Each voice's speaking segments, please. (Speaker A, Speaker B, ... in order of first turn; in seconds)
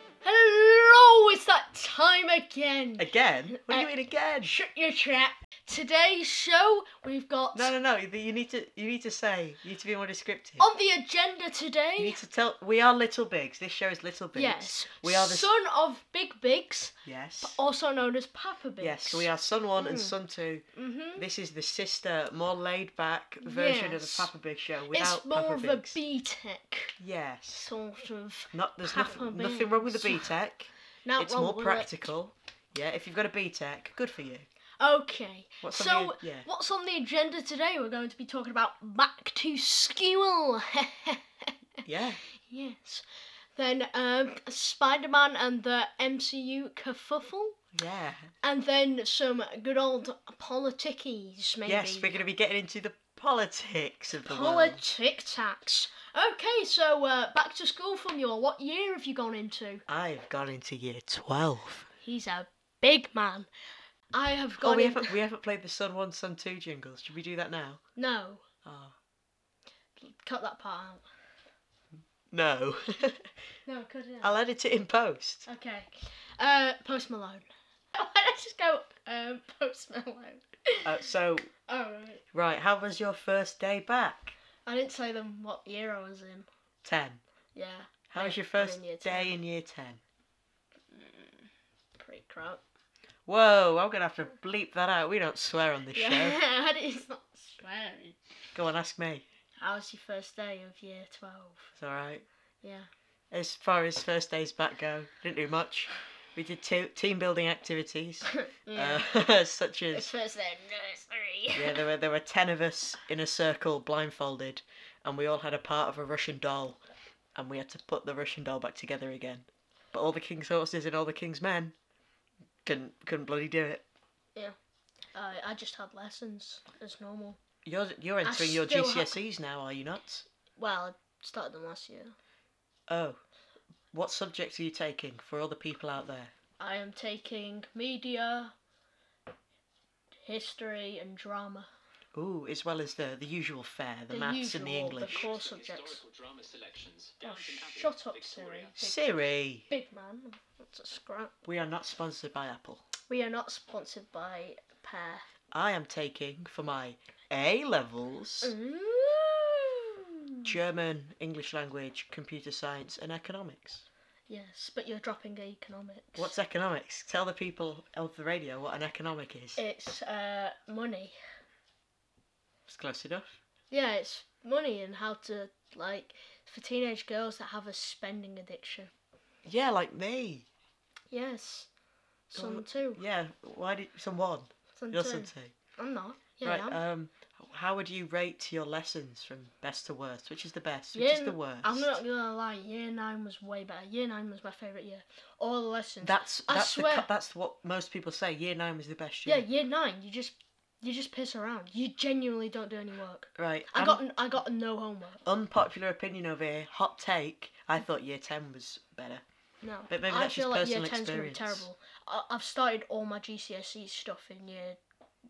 Speaker A: 0.2-3.9, 4.4-7.7, 10.6-12.2, 14.3-20.1, 20.7-21.2, 23.4-24.3, 24.9-27.0, 27.5-30.3, 31.0-32.0, 34.8-41.5, 42.4-47.6, 48.4-52.2, 54.2-59.8, 62.0-63.5, 64.1-65.2, 68.0-68.4, 70.0-71.0, 73.7-74.4, 75.5-81.0, 81.7-82.2, 84.7-86.5, 87.5-89.4, 90.9-92.6, 95.9-98.2, 99.6-101.7, 102.6-102.9, 108.3-109.1, 109.9-111.8, 125.1-127.4, 128.2-129.2, 130.6-132.1, 136.6-138.5, 140.2-141.7, 144.1-146.0, 147.2-149.1, 149.7-151.3, 153.1-155.3, 158.4-160.5, 164.3-166.3, 169.6-171.1, 173.7-178.9, 181.1-181.7, 182.3-183.0, 184.8-186.8, 190.9-197.1, 199.2-205.2, 209.6-214.8
Speaker B: 3.0-4.5, 7.5-10.7, 12.0-15.5, 17.0-17.6, 18.8-25.9, 27.0-27.7, 28.5-34.5, 35.6-36.5, 41.8-42.2, 47.7-48.3, 51.6-54.8, 59.9-61.9, 64.6-67.8, 68.6-69.0, 72.3-73.3, 74.2-75.5, 80.8-81.5, 82.3-84.3, 86.8-87.2, 88.1-90.0, 93.3-96.4, 98.5-99.2, 101.8-102.2, 103.3-110.1, 111.5-116.8, 117.3-121.8, 122.6-123.8, 127.6-130.2, 132.9-133.2, 133.9-136.3, 142.1-145.3, 148.8-149.7, 151.4-152.8, 155.5-158.5, 160.4-163.8, 166.2-169.6, 172.7-173.4, 179.4-180.5, 182.3-185.5, 186.4-192.0, 196.0-199.4, 203.4-204.0, 205.2-209.2, 209.9-211.7
Speaker C: 145.0-148.7